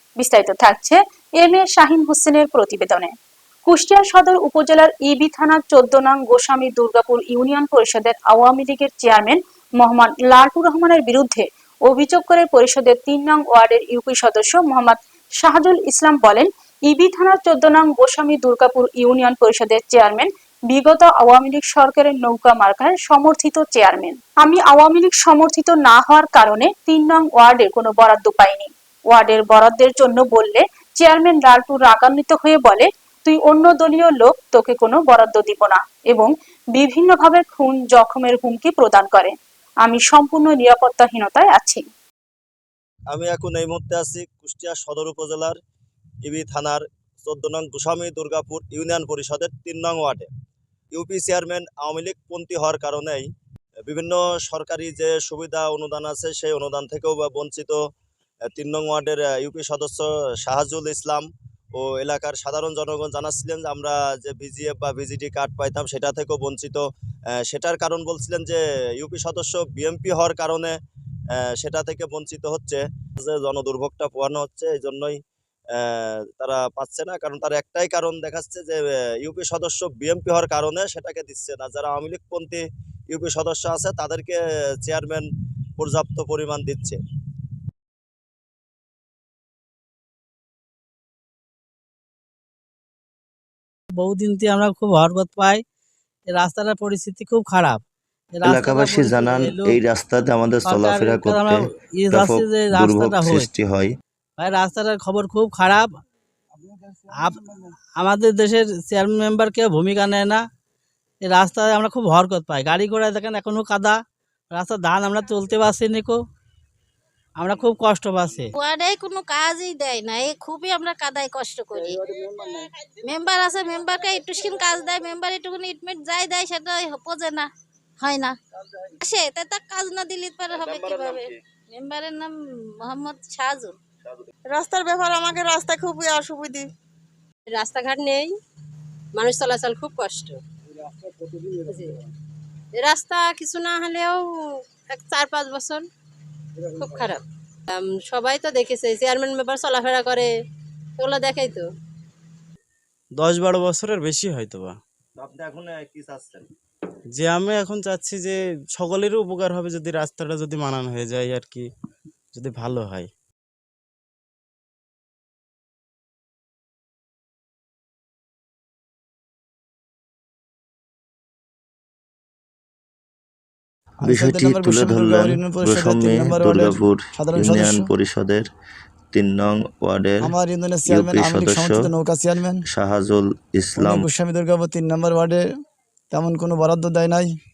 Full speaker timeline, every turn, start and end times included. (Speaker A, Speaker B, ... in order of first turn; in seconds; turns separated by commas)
Speaker A: 0.2-3.1, Speaker A: 3.6-41.8, Speaker B: 43.1-45.6, Speaker B: 46.2-50.3, Speaker B: 50.9-53.3, Speaker B: 53.9-57.8, Speaker B: 58.5-66.8, Speaker B: 67.4-70.8, Speaker B: 71.3-75.2, Speaker B: 75.7-87.0, Speaker C: 94.0-95.6, Speaker C: 96.3-97.8, Speaker C: 98.3-99.8, Speaker D: 98.4-103.9, Speaker C: 100.6-103.5, Speaker C: 104.4-105.9, Speaker C: 107.1-110.4, Speaker C: 111.2-114.0, Speaker C: 114.5-116.2, Speaker C: 117.4-118.5, Speaker E: 118.5-128.3, Speaker E: 129.0-133.8, Speaker B: 130.5-131.3, Speaker F: 134.5-136.7, Speaker G: 137.5-138.3, Speaker G: 139.2-140.4, Speaker G: 141.6-141.9, Speaker G: 142.8-144.2, Speaker G: 144.9-145.8, Speaker G: 146.7-150.3, Speaker G: 151.0-151.7, Speaker H: 153.2-154.8, Speaker B: 155.2-156.5, Speaker H: 157.1-161.7, Speaker H: 162.3-163.1, Speaker I: 174.0-177.9, Speaker D: 174.0-178.5, Speaker D: 179.1-180.3, Speaker I: 180.2-182.6, Speaker D: 180.9-181.9, Speaker D: 182.7-184.1, Speaker I: 183.8-185.4, Speaker I: 186.1-187.3